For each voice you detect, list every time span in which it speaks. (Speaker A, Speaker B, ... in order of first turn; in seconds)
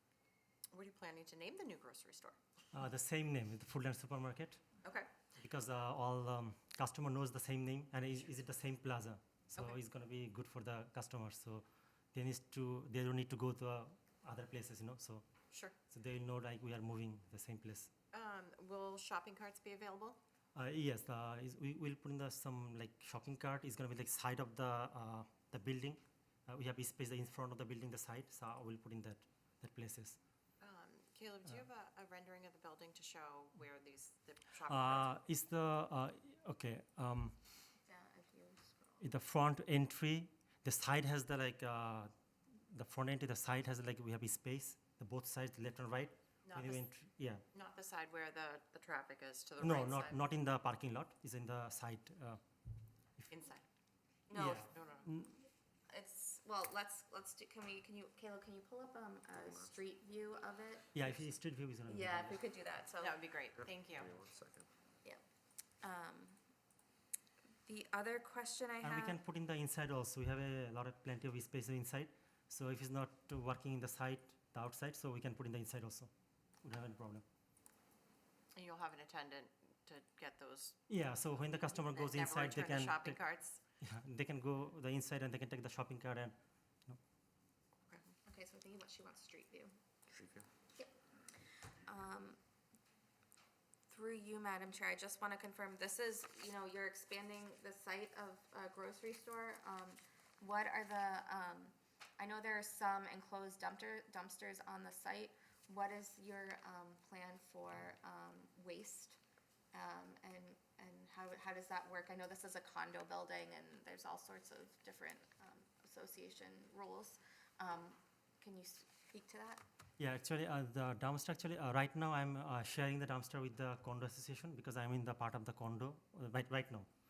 Speaker A: 0.7-2.4, 4.8-5.1, 15.5-15.8, 18.1-20.2, 30.6-35.2, 46.5-46.9, 47.5-50.2, 53.3-53.6, 54.5-55.1, 63.0-64.3, 78.6-80.8, 81.5-83.6, 87.9-88.2
Speaker B: 2.7-4.7, 5.4-15.2, 15.9-17.9, 20.6-30.2, 34.7-37.4, 39.0-42.1, 42.7-47.4, 49.6-52.4, 54.3-55.4, 60.9-62.4, 68.8-76.1, 76.6-77.2, 80.9-83.2, 83.8-86.3, 120.0-126.9
Speaker C: 37.8-39.0, 54.3-54.7, 55.9-61.1, 61.9-63.2, 65.8-66.4, 67.7-69.2, 88.3-89.8, 91.8-92.4, 93.9-109.2, 109.7-119.6
Speaker D: 59.3-59.8, 63.5-64.7, 90.2-90.5